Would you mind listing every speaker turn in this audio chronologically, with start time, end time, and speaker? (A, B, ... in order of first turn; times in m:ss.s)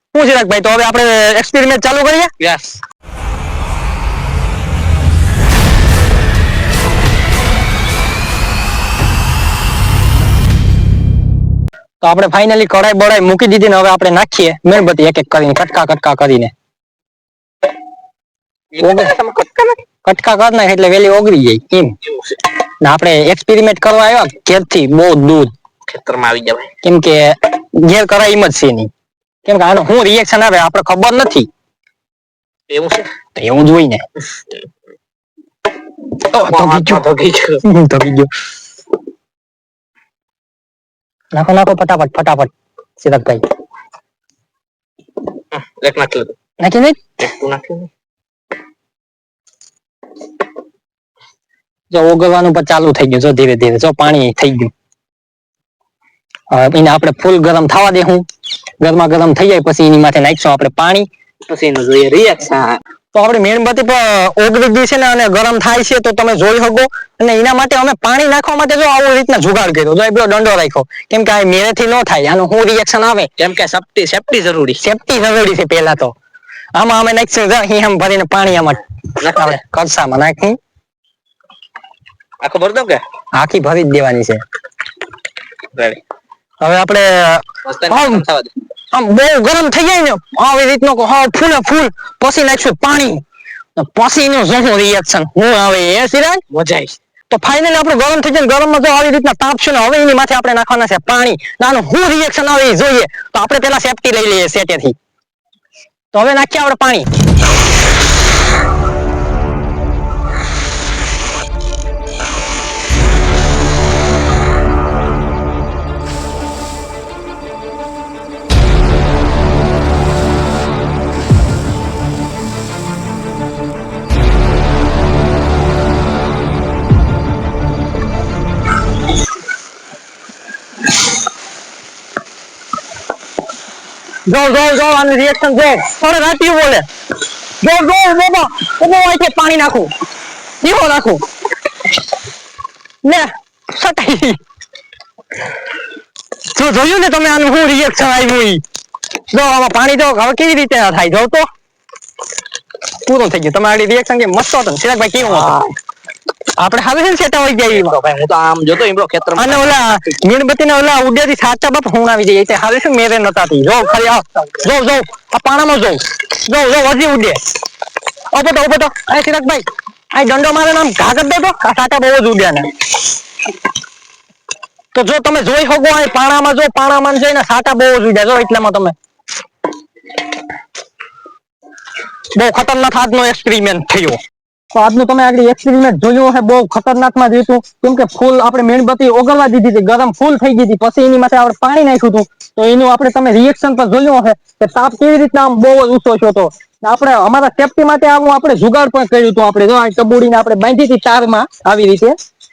0:00.1-0:02.3 A
0:02.4-0:02.8 B
0:12.0-0:16.5 A
0:18.8-0:19.8 B
0:18.8-0:19.2 A
0:20.0-0:21.9 A
0:22.8-0:25.5 A
0:25.9-0:26.7 B
0:26.8-0:28.9 A
0:29.4-0:31.5 A
0:32.7-0:33.1 B
0:33.4-0:34.0 A
0:36.3-0:37.0 A
0:36.3-0:37.6 B
0:37.6-0:38.3 A
0:41.3-0:43.4 A
0:45.5-0:46.4 B
0:46.6-0:47.1 A
0:47.2-0:47.9 B
0:51.9-0:54.7 A
0:56.5-0:58.2 A
0:58.8-1:01.1 A
1:01.5-1:02.8 B
1:03.1-1:13.3 A
1:13.4-1:14.8 B
1:14.8-1:16.1 A
1:16.8-1:20.6 A
1:19.2-1:19.6 B
1:22.4-1:23.0 B
1:23.4-1:24.4 A
1:25.8-1:26.0 B
1:26.6-1:28.2 A
1:27.6-1:28.5 B
1:28.9-1:33.2 A
1:33.8-1:36.4 A
1:36.5-1:36.9 B
1:37.3-1:45.0 A
1:46.1-1:47.1 A
2:14.3-2:16.8 A
2:17.6-2:19.9 A
2:20.6-2:21.2 A
2:23.0-2:24.4 A
2:26.5-2:28.6 A
2:29.3-2:31.5 A
2:33.0-2:35.5 A
2:35.2-2:35.8 B
2:36.6-2:37.9 A
2:37.7-2:39.8 B
2:39.4-2:47.4 A
2:48.3-2:52.7 A
2:54.9-2:58.9 A
3:02.4-3:04.2 A
3:04.7-3:22.2 A